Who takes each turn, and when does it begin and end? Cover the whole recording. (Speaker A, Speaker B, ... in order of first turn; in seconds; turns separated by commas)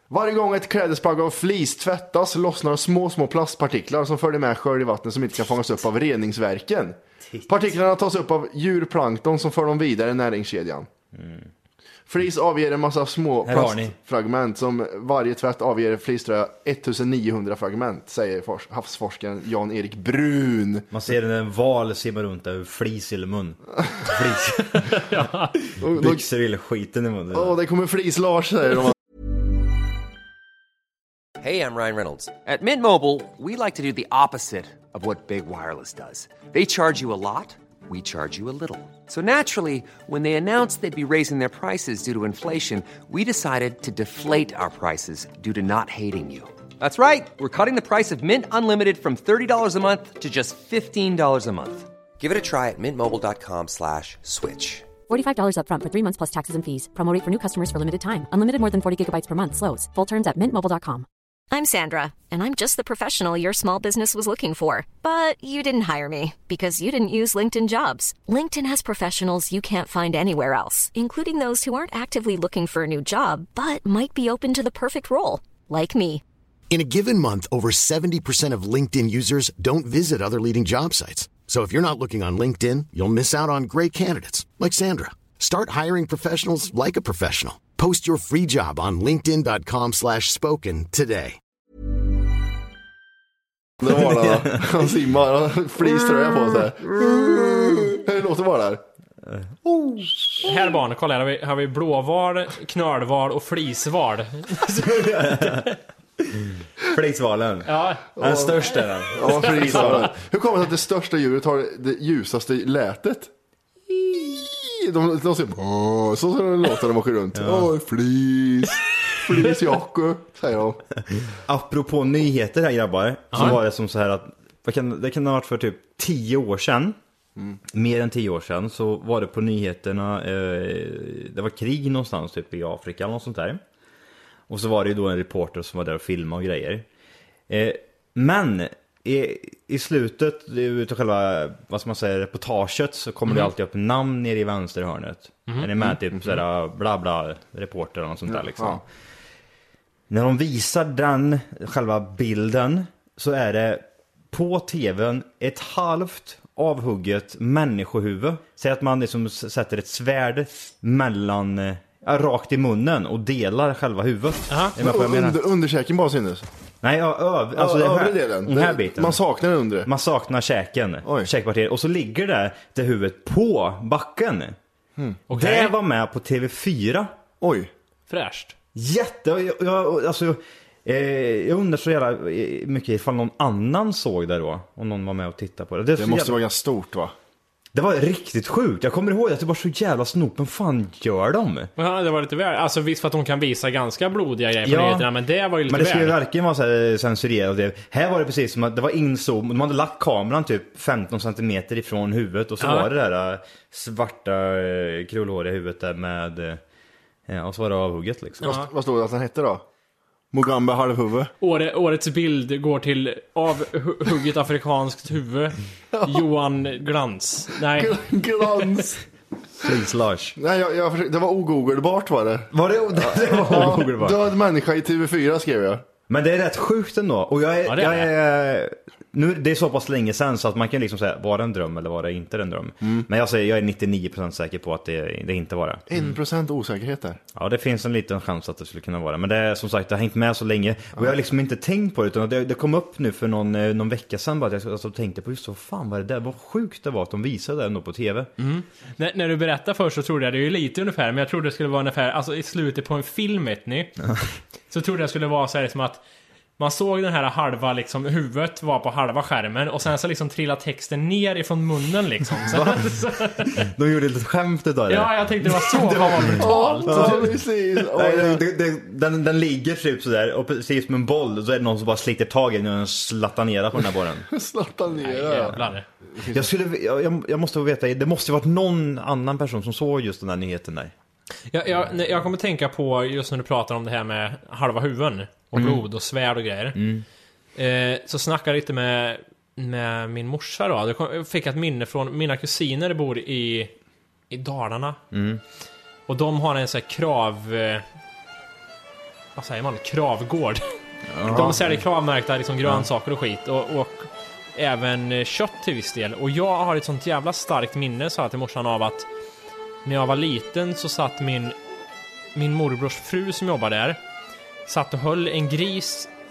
Speaker A: 0.1-10.9, Speaker B: 11.1-11.5, Speaker A: 12.1-20.9, Speaker B: 13.4-13.9, Speaker B: 20.9-25.0, Speaker C: 24.8-25.6, Speaker B: 25.7-27.6, Speaker A: 25.8-26.2, Speaker A: 27.3-29.0, Speaker D: 31.4-54.9, Speaker E: 55.1-61.0, Speaker F: 61.5-76.2, Speaker G: 76.7-91.4, Speaker A: 93.8-98.8, Speaker B: 94.2-94.6, Speaker B: 97.1-97.4, Speaker B: 99.2-100.5, Speaker C: 100.4-105.7, Speaker B: 104.8-105.7, Speaker B: 106.4-110.1, Speaker C: 107.7-108.4, Speaker A: 108.2-108.5, Speaker A: 109.1-113.3, Speaker C: 109.2-110.1, Speaker A: 113.9-120.8, Speaker B: 117.3-117.7, Speaker B: 121.4-127.0, Speaker C: 123.3-123.6, Speaker B: 127.7-133.6, Speaker B: 134.5-136.8, Speaker B: 137.5-148.8, Speaker A: 148.3-148.8, Speaker B: 150.1-165.4, Speaker C: 164.5-164.7, Speaker A: 164.8-166.5, Speaker B: 166.8-169.2, Speaker A: 167.5-169.9, Speaker B: 169.8-174.6, Speaker A: 171.0-171.3, Speaker C: 175.3-175.7, Speaker B: 175.3-177.1, Speaker A: 177.4-177.7, Speaker C: 178.1-178.5, Speaker B: 178.7-186.4, Speaker A: 186.0-187.1, Speaker B: 187.7-191.7, Speaker C: 191.8-196.2, Speaker B: 194.6-195.1, Speaker B: 195.7-206.6, Speaker C: 202.6-202.9, Speaker B: 207.3-208.6, Speaker C: 208.4-208.7, Speaker A: 208.4-209.6, Speaker A: 210.3-211.3, Speaker C: 211.4-218.0, Speaker A: 215.9-216.2, Speaker A: 217.7-219.0, Speaker B: 219.6-220.4, Speaker A: 220.4-225.8, Speaker B: 222.5-224.2, Speaker B: 226.1-236.0, Speaker C: 227.7-228.1, Speaker A: 235.9-237.2, Speaker B: 237.3-248.3, Speaker C: 248.4-254.0, Speaker C: 254.7-256.0, Speaker C: 256.6-263.6, Speaker B: 262.5-262.8, Speaker B: 263.5-274.3, Speaker C: 264.9-267.3, Speaker A: 266.2-268.4, Speaker A: 274.3-276.5, Speaker C: 275.0-275.9, Speaker B: 276.3-280.9, Speaker C: 281.5-286.8, Speaker B: 285.5-285.8, Speaker B: 286.7-287.1, Speaker C: 287.6-293.7, Speaker C: 294.3-295.0, Speaker B: 295.1-295.4, Speaker C: 296.1-297.8, Speaker C: 299.4-300.6, Speaker B: 301.1-301.7, Speaker C: 301.3-309.1, Speaker A: 301.3-301.6, Speaker C: 309.8-311.5, Speaker C: 312.3-314.0, Speaker C: 314.7-316.1